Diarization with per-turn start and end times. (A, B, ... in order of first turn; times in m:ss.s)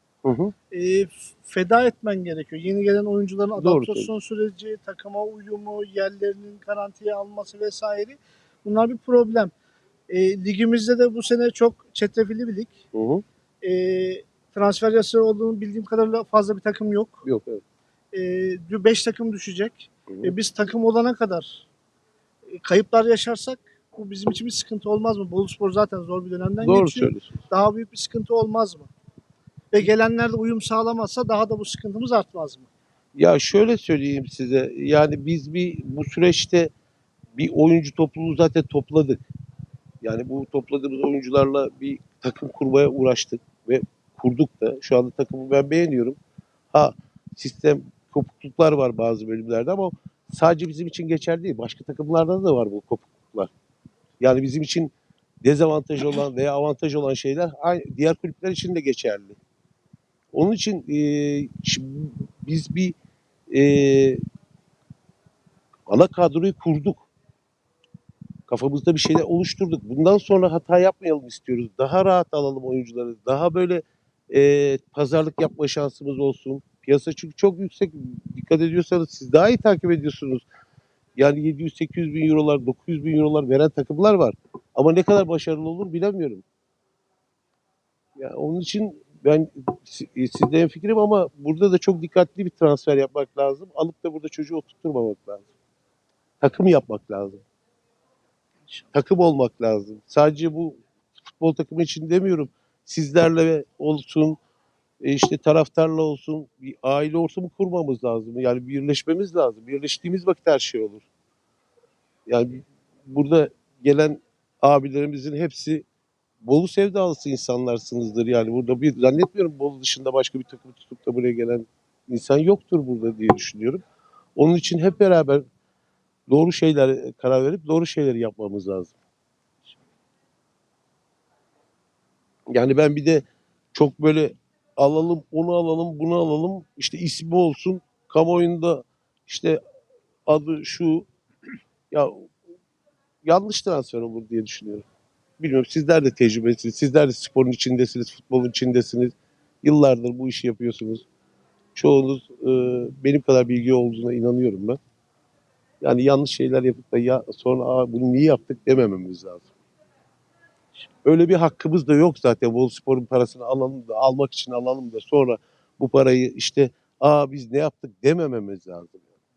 0:00.2-0:00.5 A
0:00.7-0:09.5 B
0:03.6-0:04.1 A
0:10.1-0:12.8 B
0:12.9-0:13.2 A
0:13.6-0:17.2 B
0:17.2-0:17.6 A
0:18.1-0:21.7 B
0:22.5-0:28.9 B
0:26.6-0:27.4 A
0:29.7-0:32.7 B
0:33.2-0:36.7 A
0:37.4-0:39.2 A
0:40.0-0:46.2 A
0:46.7-0:53.5 A
0:54.2-0:54.9 A
0:55.4-0:59.4 A
1:00.3-1:03.0 A
1:03.5-1:04.2 A
1:05.9-1:07.1 A
1:08.5-1:20.4 A
1:21.2-1:26.4 A
1:28.2-1:35.4 A
1:36.4-1:37.4 A
1:38.9-1:44.4 A
1:45.0-1:51.0 A
1:52.3-1:55.8 A
1:56.4-2:03.8 A
2:04.4-2:05.4 A
2:06.3-2:09.0 A
2:12.5-2:19.6 A
2:20.3-2:21.1 A
2:21.9-2:22.3 A
2:23.2-2:24.8 A
2:25.4-2:31.0 A
2:31.8-2:34.8 A
2:35.8-2:39.5 A
2:41.0-2:49.0 A